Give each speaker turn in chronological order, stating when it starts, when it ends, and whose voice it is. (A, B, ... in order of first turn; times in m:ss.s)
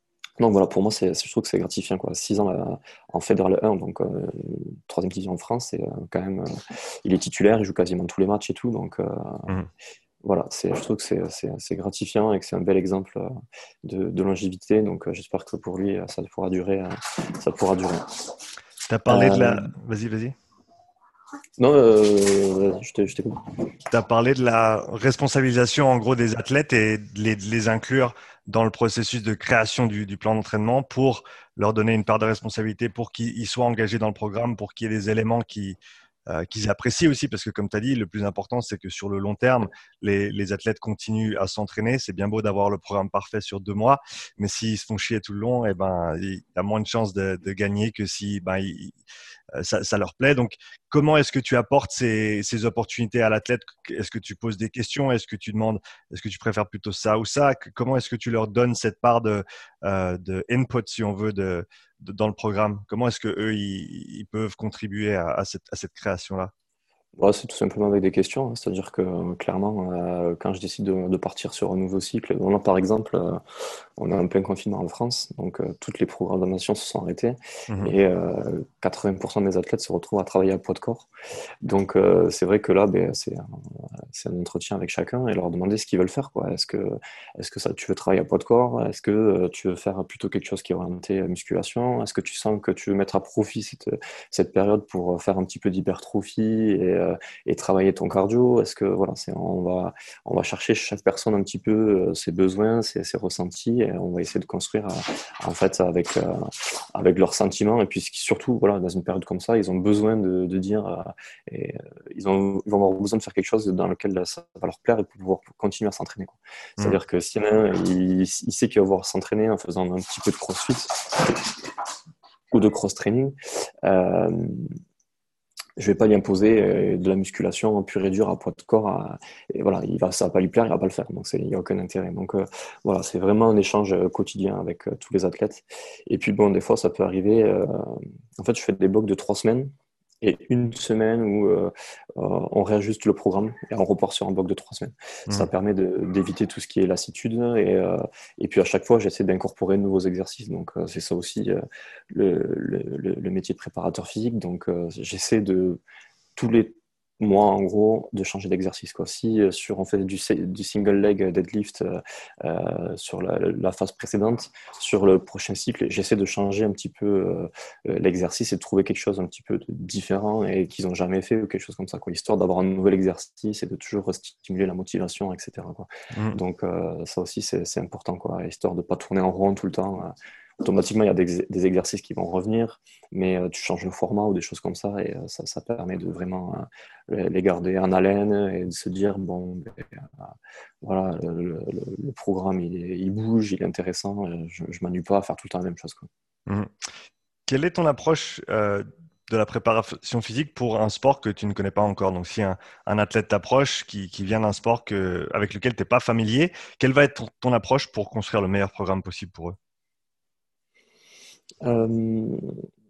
0:00.4-0:09.5 A
0:10.2-0:13.3 A
0:13.8-0:18.2 A
0:18.9-0:20.4 B
0:19.1-0:19.7 A
0:21.6-0:23.5 A
0:23.9-0:49.0 B
0:49.5-1:06.5 B
1:07.2-1:13.4 A
1:14.0-1:21.1 A
1:21.6-2:01.4 A
2:02.5-2:04.8 A
2:05.8-2:35.8 A
2:36.4-3:10.1 A
2:56.1-2:56.4 B
3:10.8-3:16.1 A
3:16.5-3:16.7 B
3:17.5-3:29.6 B
3:31.6-3:32.6 A